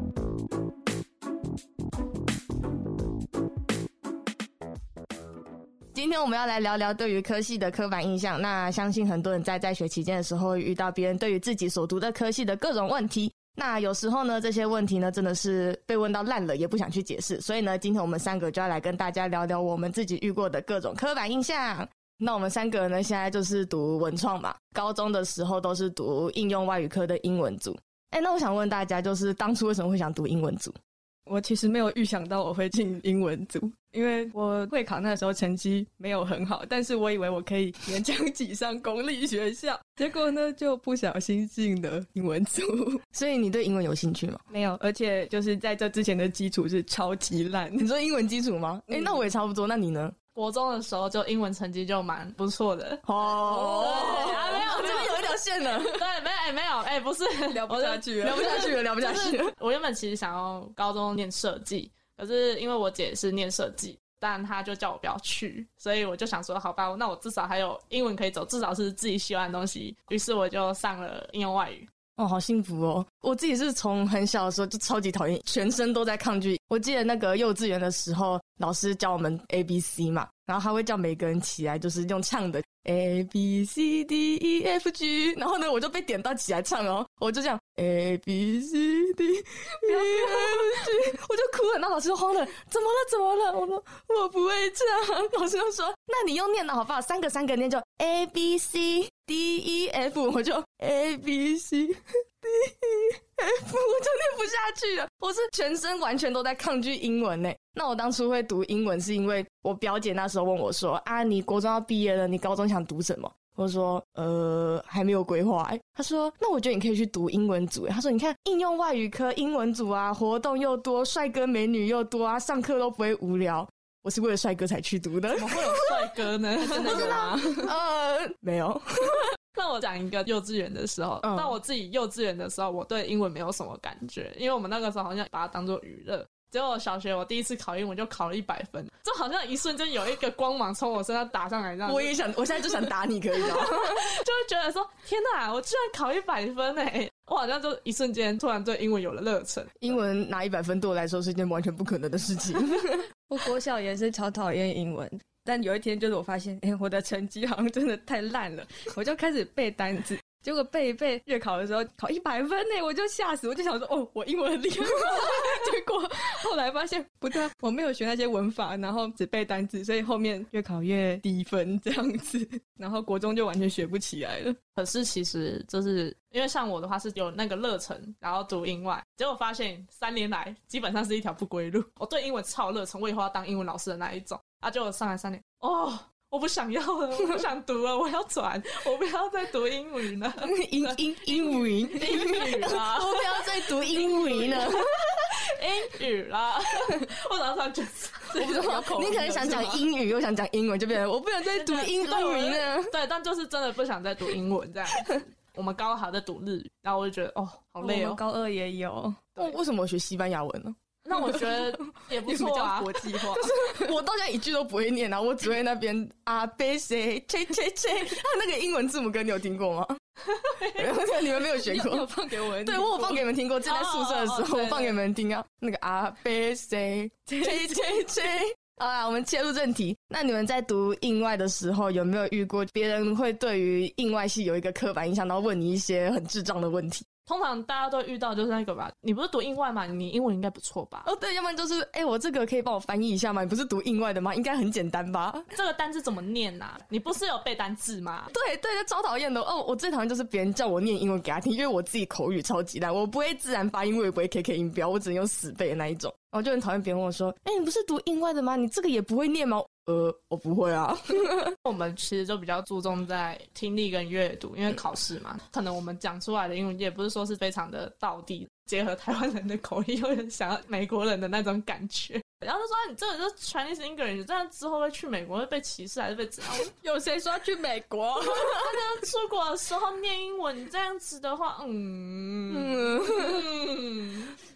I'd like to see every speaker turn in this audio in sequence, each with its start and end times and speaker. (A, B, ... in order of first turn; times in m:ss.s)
0:05.9-0:30.7 A
0:31.3-0:43.0 B
0:43.1-0:44.4 A
0:44.5-0:47.9 B
0:47.8-0:50.2 A
0:48.9-0:49.3 B
0:50.3-1:11.9 C
0:53.0-0:56.0 A
0:53.2-0:54.9 B
0:57.5-0:58.8 B
0:58.2-0:59.6 A
1:12.2-2:06.1 A
1:29.8-1:31.1 B
2:05.3-2:07.3 C
2:06.6-2:07.8 B
2:06.8-2:09.3 A
2:09.5-2:22.3 C
2:11.2-2:11.6 A
2:21.9-2:24.0 A
2:23.4-2:30.0 C
2:29.8-2:33.0 A
2:33.2-2:54.6 B
2:54.8-3:18.4 C
3:10.4-3:14.9 A
3:18.3-3:19.9 B
3:18.4-3:23.0 A
3:21.4-3:28.2 C
3:27.8-3:29.4 B
3:29.4-3:30.8 A
3:31.0-3:33.7 C
3:31.2-3:34.0 B
3:33.6-3:40.0 A
3:40.2-3:41.0 C
3:40.8-3:57.1 A
3:41.4-3:43.2 B
3:43.6-3:45.0 C
3:47.3-3:48.0 B
3:57.2-4:01.1 C
4:01.0-4:05.5 A
4:05.5-4:08.3 C
4:08.3-4:21.6 A
4:21.6-4:36.7 C
4:36.8-4:38.8 B
4:38.2-4:44.4 C
4:42.5-4:43.2 A